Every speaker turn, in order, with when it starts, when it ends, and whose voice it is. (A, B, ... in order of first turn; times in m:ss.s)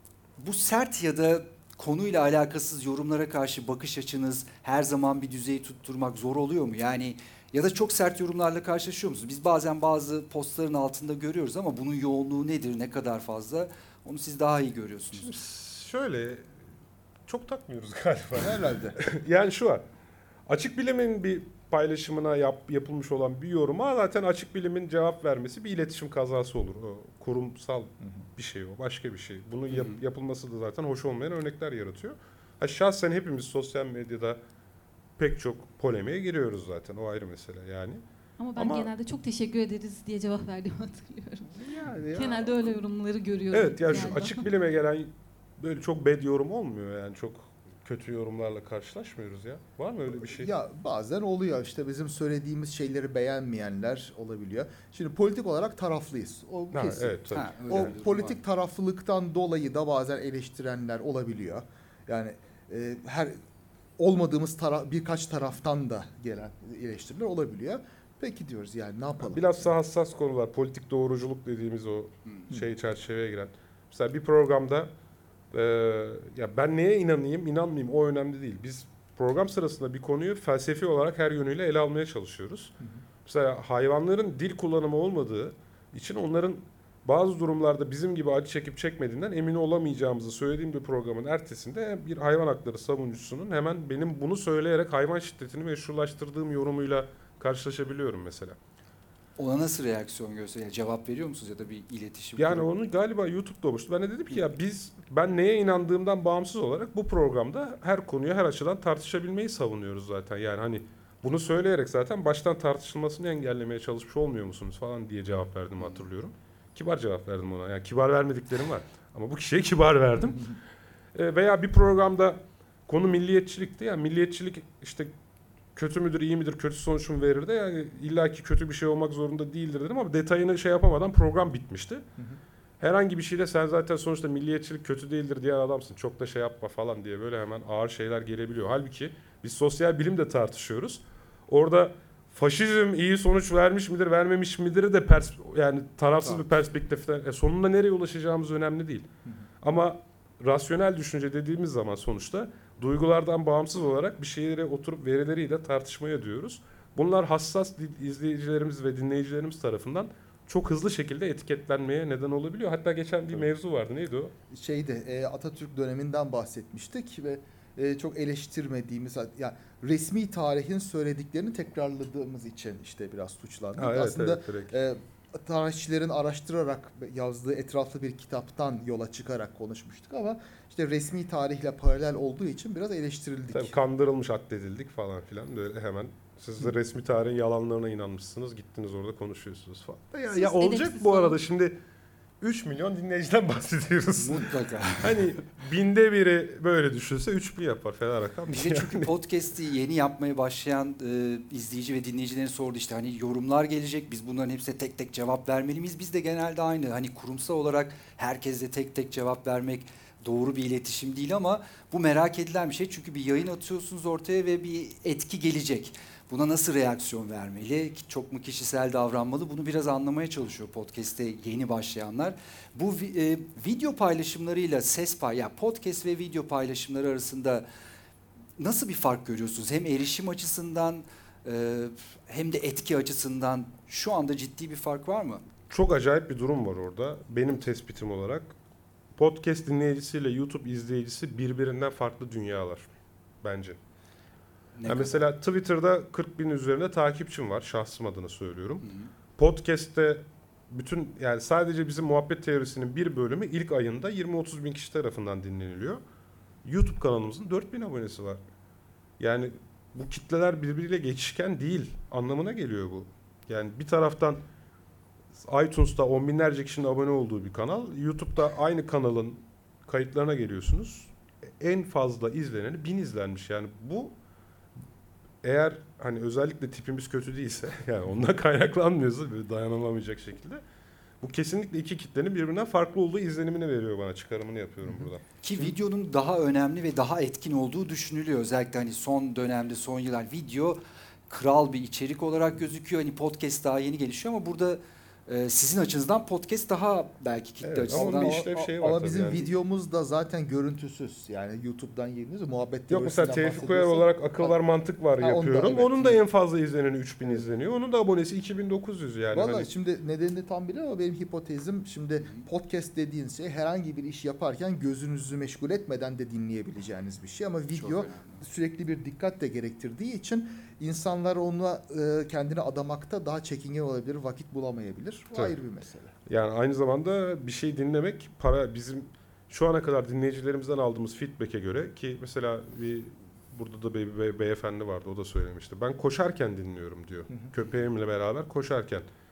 0:00.4-0:15.3 A
0:15.1-0:16.5 B
0:17.2-0:19.8 B
0:18.4-0:19.0 C
0:20.4-0:34.4 B
0:29.7-0:30.0 A
0:35.2-0:38.0 B
0:38.4-0:44.4 D
0:38.6-0:38.9 B
0:41.5-0:42.8 B
0:43.5-0:50.5 B
0:50.2-1:03.3 C
0:56.7-0:57.9 B
0:57.3-0:58.4 A
1:04.0-1:09.7 C
1:09.2-1:14.9 B
1:15.5-1:22.7 B
1:23.2-1:38.6 B
1:39.4-1:42.7 A
1:42.4-2:00.5 B
2:01.1-2:05.1 B
2:05.7-2:12.0 B
2:12.8-2:29.1 B
2:29.6-2:44.3 B
2:44.5-3:03.8 C
2:53.8-2:54.7 B
3:03.5-3:11.8 B
3:10.3-3:11.4 D
3:12.4-3:14.5 B
3:14.1-3:15.3 A
3:15.0-3:19.1 B
3:18.5-3:47.6 A
3:48.6-3:55.4 A
3:55.7-3:58.5 B
3:59.2-4:02.9 B
4:03.4-4:03.8 B
4:04.8-4:05.2 A
4:04.8-4:08.8 B
4:08.8-4:09.1 A
4:09.4-4:16.0 B
4:16.6-4:18.4 B
4:19.2-4:24.4 B
4:25.4-4:34.1 B
4:35.4-4:40.6 B
4:41.2-4:45.2 B
4:45.4-4:58.4 A
4:57.6-4:59.5 B
4:57.9-5:04.6 C
5:02.9-5:09.7 B
5:05.2-5:06.2 C
5:09.3-5:26.1 C
5:17.8-5:18.4 A
5:26.3-5:39.0 B